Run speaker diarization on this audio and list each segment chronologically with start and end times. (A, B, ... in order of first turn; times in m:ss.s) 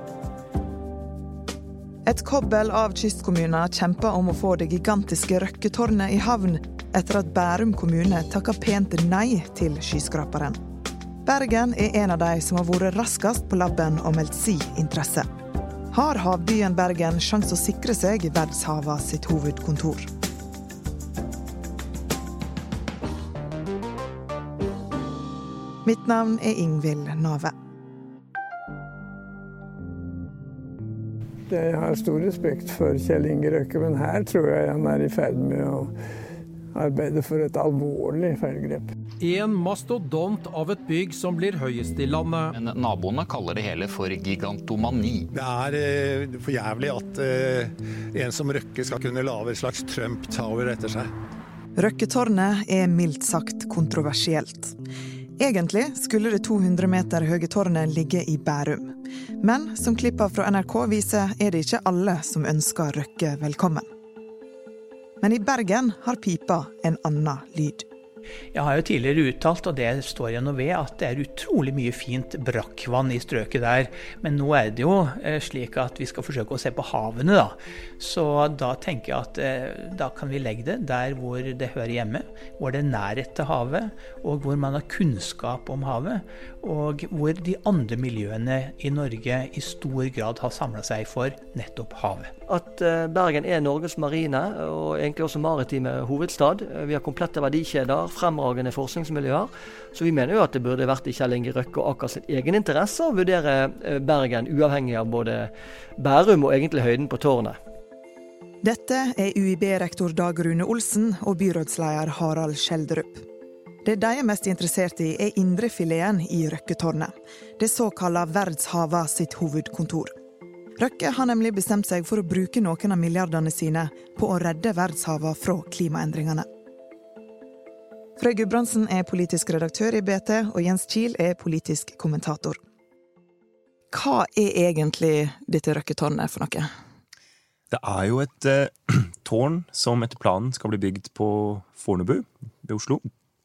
0:02.0-0:10.6 A
0:11.2-0:15.3 A
0:15.9-0:20.1 A
0:25.8-0:27.5 A
0:31.5-0:35.9 B
0:36.7-0:38.8 B
0:39.2-0:42.5 C
0:42.5-0:45.2 D
0:45.3-0:51.1 E
0:51.8-0:54.7 A
0:55.4-1:03.8 A
1:05.2-1:07.8 A
1:08.5-1:32.3 F
1:32.4-1:47.6 G
1:48.6-1:53.2 A
1:53.8-2:00.1 A
2:00.8-2:06.4 A
2:08.2-2:12.6 A
2:13.9-2:16.7 A
2:17.7-2:23.0 H